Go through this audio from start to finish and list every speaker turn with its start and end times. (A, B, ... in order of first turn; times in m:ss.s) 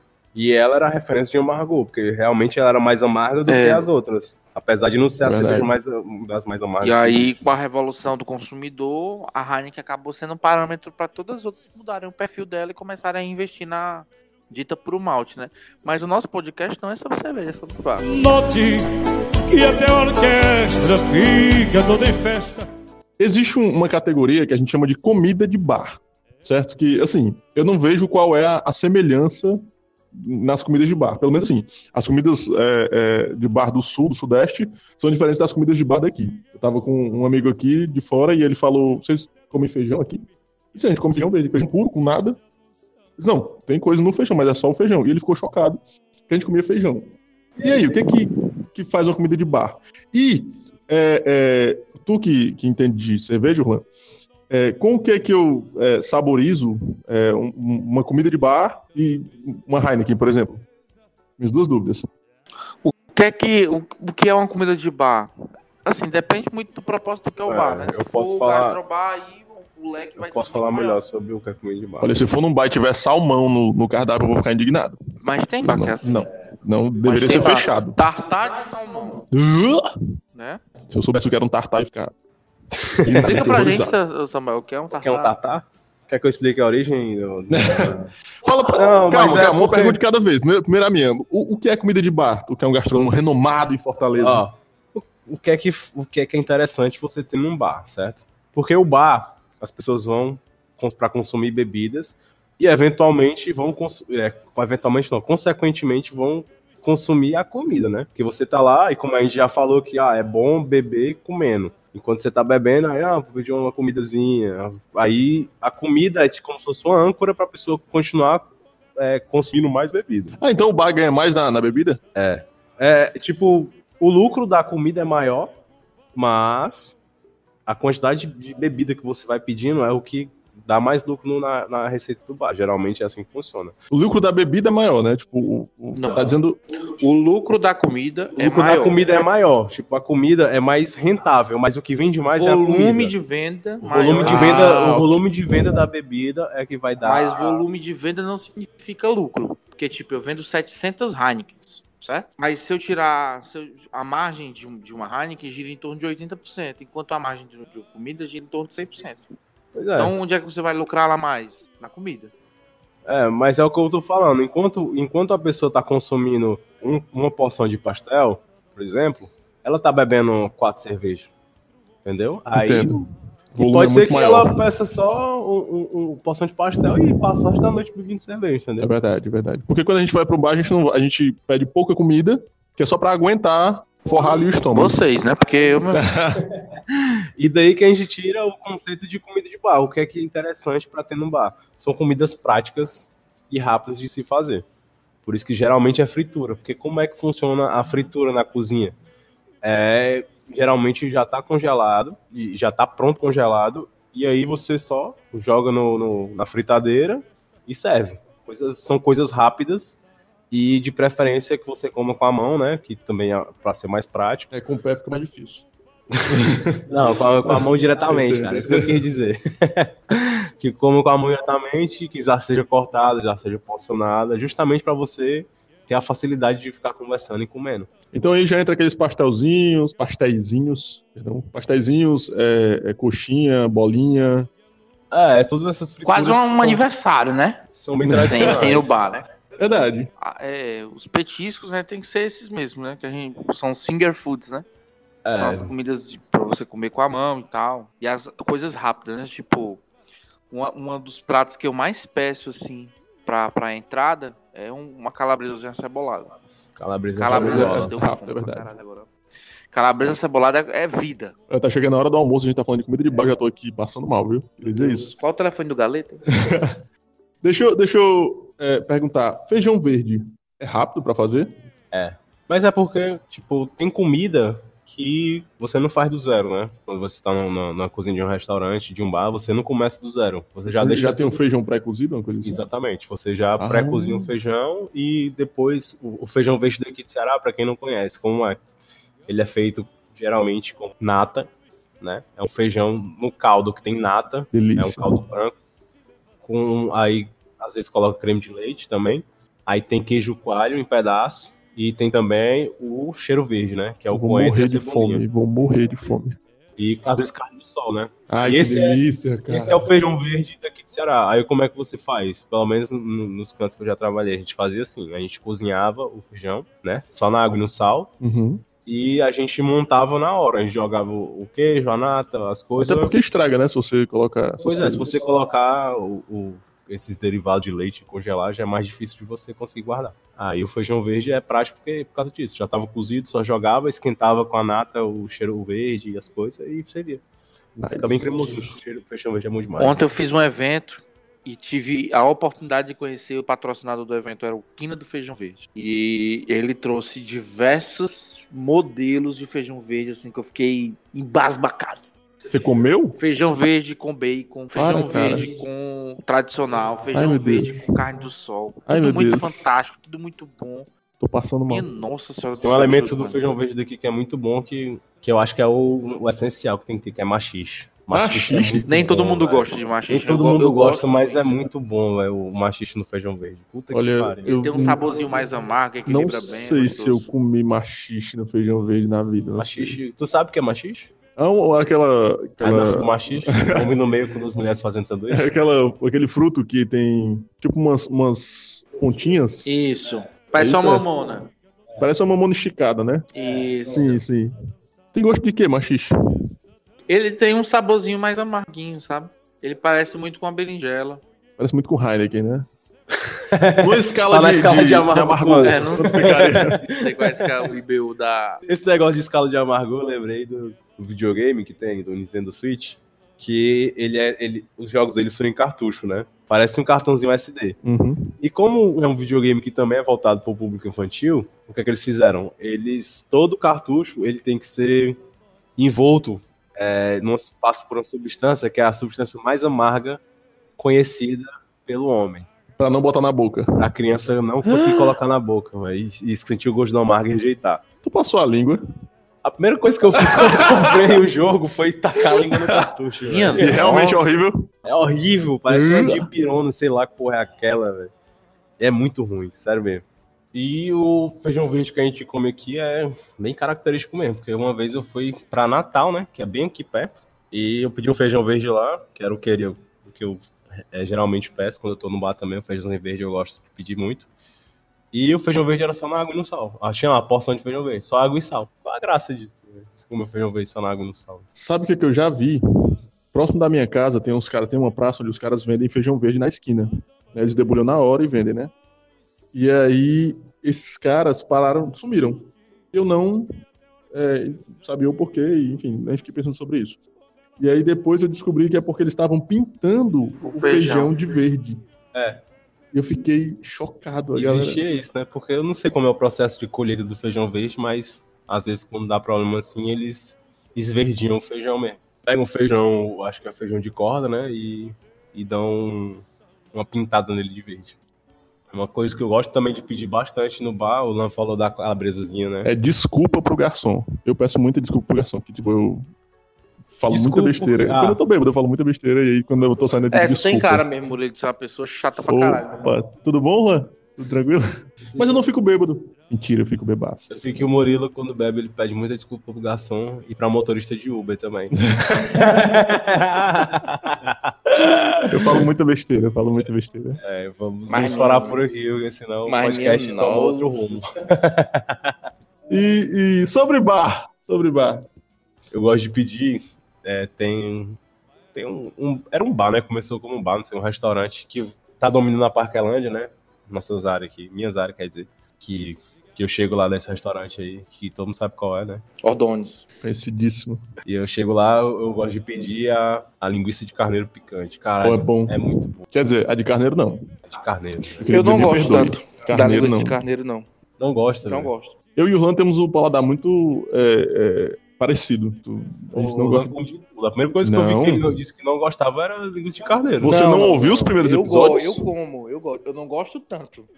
0:00.3-0:07.6 A
0:03.5-0:03.8 B
0:05.2-0:05.7 C
0:06.8-0:18.1 B
0:18.0-0:18.9 D
0:19.5-0:22.7 D
0:23.2-0:29.6 C
0:30.1-0:42.4 C
0:43.2-0:53.9 C
0:54.5-1:00.6 C
1:01.4-1:02.1 C
1:02.8-1:05.3 B
1:05.8-1:11.0 B
1:07.4-1:08.8 A
1:10.2-1:12.1 A
1:12.0-1:15.0 C
1:15.2-1:16.2 B
1:15.6-1:18.0 C
1:17.0-1:19.2 B
1:19.3-1:19.9 C
1:20.3-1:20.6 B
1:20.9-1:22.1 C
1:22.9-1:23.4 A
1:23.0-1:23.9 C
1:23.2-1:25.3 B
1:24.9-1:28.0 A
1:27.5-1:34.4 C
1:28.7-1:30.0 A
1:34.2-2:00.4 A
2:00.4-2:02.0 C
2:02.1-2:05.6 A
2:06.1-2:07.0 A
2:07.6-2:13.8 A
2:13.9-2:16.6 C
2:15.9-2:19.0 B
2:18.4-2:23.1 A
2:22.3-2:25.0 B
2:23.8-2:27.6 A
2:24.2-2:25.2 C
2:27.0-2:39.3 B
2:39.7-2:40.1 A
2:40.0-2:42.3 B
2:43.0-2:51.3 A
2:52.0-2:53.0 A
2:52.5-2:54.6 C
2:53.6-2:58.9 A
2:58.8-3:05.0 C
3:04.7-3:06.1 B
3:05.9-3:06.5 C
3:06.9-3:14.6 A
3:15.2-3:19.0 A
3:19.6-3:30.0 A
3:30.5-3:34.5 A
3:34.5-3:35.6 C
3:36.1-3:47.9 A
3:36.3-3:39.0 C
3:48.1-3:54.5 C
3:55.1-3:56.8 A
3:56.0-3:57.6 B
3:57.7-3:59.0 A
3:58.0-3:58.8 C
3:58.2-3:59.2 B
3:59.6-4:00.1 C
4:00.2-4:04.6 B
4:05.2-4:05.8 A
4:05.3-4:09.8 B
4:10.5-4:16.4 B
4:16.8-4:17.9 A
4:17.2-4:19.1 B
4:17.2-4:18.7 C
4:19.7-4:21.3 B
4:21.5-4:25.1 C
4:24.6-4:26.2 B
4:26.4-4:26.8 C
4:27.4-4:31.5 C
4:31.9-4:41.4 A
4:40.8-4:42.6 C
4:42.4-4:48.6 A
4:43.6-4:44.3 C
4:49.3-4:55.6 A
4:54.5-4:55.2 C
4:56.4-5:05.2 A
5:04.1-5:06.4 C
5:06.8-5:18.1 A
5:08.3-5:09.8 C
5:18.2-5:18.6 C
5:18.8-5:23.1 A
5:22.8-5:25.2 C
5:24.6-5:37.2 A
5:37.8-5:38.7 C
5:37.8-5:40.0 A
5:39.8-5:52.1 B
5:52.5-5:53.2 C
5:53.2-6:00.9 B
5:54.7-5:55.5 C
5:57.1-5:57.9 C
5:58.9-5:59.7 C
6:01.2-6:01.8 C
6:01.7-6:03.5 B
6:02.6-6:14.5 A
6:08.1-6:08.9 C
6:08.9-6:11.6 B
6:13.9-6:15.0 C
6:14.4-6:17.3 B
6:16.0-6:20.0 C
6:19.6-6:21.1 A
6:21.4-6:23.9 C
6:22.6-6:25.5 A
6:25.3-6:29.7 C
6:29.6-6:31.5 B
6:30.6-6:31.0 C
6:32.0-6:33.3 C
6:33.3-6:34.2 B
6:33.8-6:34.5 C
6:35.1-6:36.1 C
6:37.1-6:41.2 B
6:41.6-6:42.7 C
6:43.5-6:47.3 A
6:43.8-6:46.8 C
6:45.6-6:48.6 B
6:48.7-6:57.8 A
6:57.8-6:58.3 C
6:58.4-7:05.2 A
7:05.8-7:10.2 A
7:10.8-7:12.5 A
7:12.8-7:13.9 C
7:13.8-7:17.8 A
7:14.6-7:15.2 C
7:18.0-7:18.8 C
7:19.4-7:24.0 A
7:20.2-7:20.6 C
7:23.2-7:24.3 B
7:23.5-7:24.6 C
7:24.8-7:28.1 A
7:25.7-7:26.3 C
7:28.8-7:44.3 A
7:45.1-7:51.5 A
7:51.5-7:52.6 C
7:53.3-7:58.7 C
7:59.5-8:03.5 C
8:04.1-8:07.0 C
8:07.6-8:11.8 C
8:10.4-8:11.1 B
8:12.1-8:12.4 A
8:12.9-8:14.8 C
8:14.4-8:28.0 A
8:28.7-8:32.7 A
8:32.6-8:36.1 C
8:36.9-8:40.8 C
8:37.1-8:38.2 A
8:40.1-8:42.9 B
8:42.2-8:44.6 C
8:45.1-8:47.7 C
8:47.3-8:55.6 A
8:51.8-8:52.5 C
8:55.3-8:57.2 C
8:57.2-9:02.2 A
8:57.9-8:58.6 B
8:59.4-9:01.0 B
9:02.7-9:05.1 C
9:05.7-9:08.0 A
9:08.5-9:19.0 A
9:19.2-9:19.8 B
9:20.0-9:20.8 C
9:21.0-9:26.0 A
9:25.0-9:27.2 C
9:27.5-9:28.8 A
9:28.1-9:30.2 C
9:28.3-9:30.7 B
9:31.0-9:31.7 A
9:31.4-9:32.0 B
9:32.2-9:36.7 C
9:36.1-9:40.4 A
9:37.6-9:38.2 C
9:40.2-9:42.0 C
9:40.2-9:43.9 B